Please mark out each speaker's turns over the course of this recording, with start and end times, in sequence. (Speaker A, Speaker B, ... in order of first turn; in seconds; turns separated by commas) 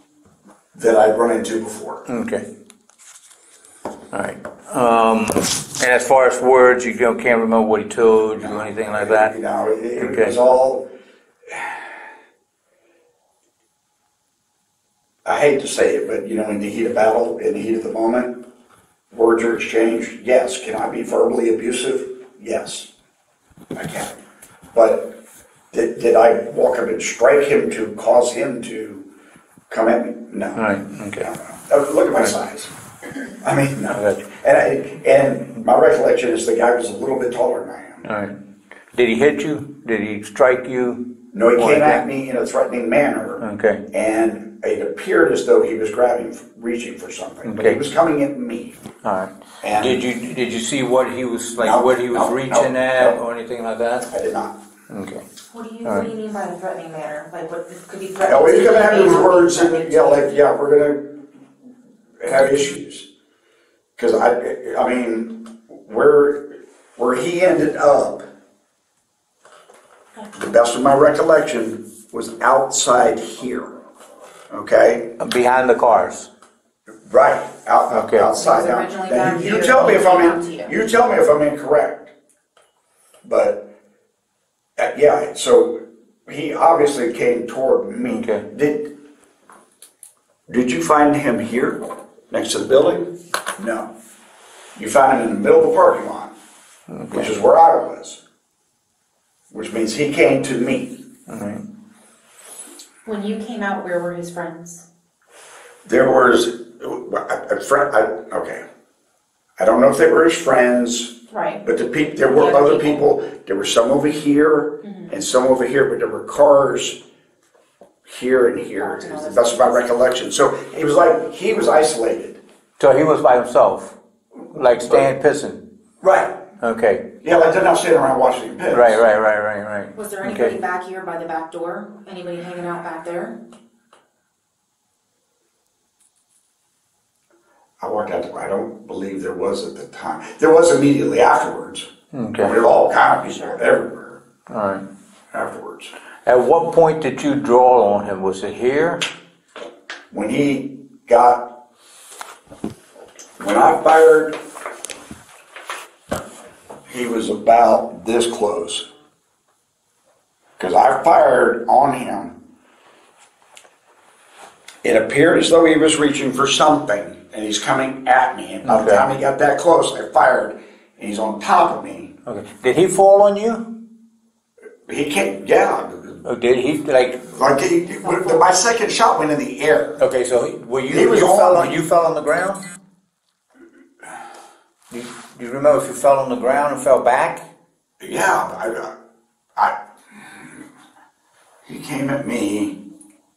Speaker A: 0.7-2.0, Speaker B: 2.1-2.5, Speaker B: 4.1-9.3, Speaker A: 8.4-10.9, Speaker B: 9.9-10.3, Speaker A: 11.5-12.0, Speaker A: 15.2-18.4, Speaker A: 19.1-22.9, Speaker A: 23.7-24.2, Speaker A: 24.7-25.1, Speaker A: 25.7-29.1, Speaker A: 29.7-30.6, Speaker B: 30.5-31.3, Speaker A: 31.2-32.7, Speaker A: 33.4-38.0, Speaker B: 33.9-34.3, Speaker B: 38.0-38.4, Speaker B: 38.9-42.0, Speaker A: 41.3-48.8, Speaker B: 43.4-43.8, Speaker B: 47.4-47.9, Speaker B: 49.0-54.1, Speaker A: 49.6-50.0, Speaker A: 51.6-53.2, Speaker A: 54.1-54.6, Speaker B: 54.9-55.2, Speaker C: 55.5-60.3, Speaker B: 55.8-56.1, Speaker A: 58.2-61.2, Speaker A: 62.2-63.1, Speaker A: 64.0-68.2, Speaker A: 70.3-73.7, Speaker A: 74.5-75.1, Speaker B: 75.2-76.3, Speaker A: 77.0-82.1, Speaker B: 77.9-78.3, Speaker C: 78.3-80.7, Speaker A: 83.2-83.7, Speaker A: 84.8-88.9, Speaker B: 88.0-88.5, Speaker A: 90.5-93.9, Speaker A: 94.8-96.3, Speaker B: 96.9-97.3, Speaker A: 97.1-98.2, Speaker A: 99.5-101.0, Speaker B: 101.3-101.6, Speaker C: 103.0-104.8, Speaker A: 105.8-108.6, Speaker A: 109.6-117.0, Speaker C: 111.3-111.6, Speaker C: 112.2-113.0, Speaker C: 114.8-115.1, Speaker A: 118.0-122.4, Speaker C: 118.8-119.9, Speaker B: 122.8-124.0, Speaker B: 124.5-125.7, Speaker A: 126.0-126.4, Speaker B: 126.6-127.2, Speaker A: 127.2-129.0, Speaker B: 128.7-130.6, Speaker C: 129.9-133.4, Speaker A: 137.8-141.9, Speaker B: 142.1-142.5, Speaker A: 142.4-144.2, Speaker B: 144.5-144.8, Speaker A: 145.3-145.9, Speaker B: 146.2-149.0, Speaker A: 150.1-151.6, Speaker A: 153.4-154.4, Speaker A: 156.9-158.9, Speaker A: 160.6-162.4, Speaker A: 164.8-172.1, Speaker B: 168.6-169.1, Speaker B: 172.2-173.7, Speaker A: 174.8-176.2, Speaker B: 176.2-177.3, Speaker A: 177.3-180.0, Speaker C: 178.0-178.4, Speaker B: 180.0-182.7, Speaker A: 180.9-181.8, Speaker B: 184.9-187.5, Speaker A: 188.0-188.9, Speaker A: 189.5-190.6, Speaker A: 191.7-192.8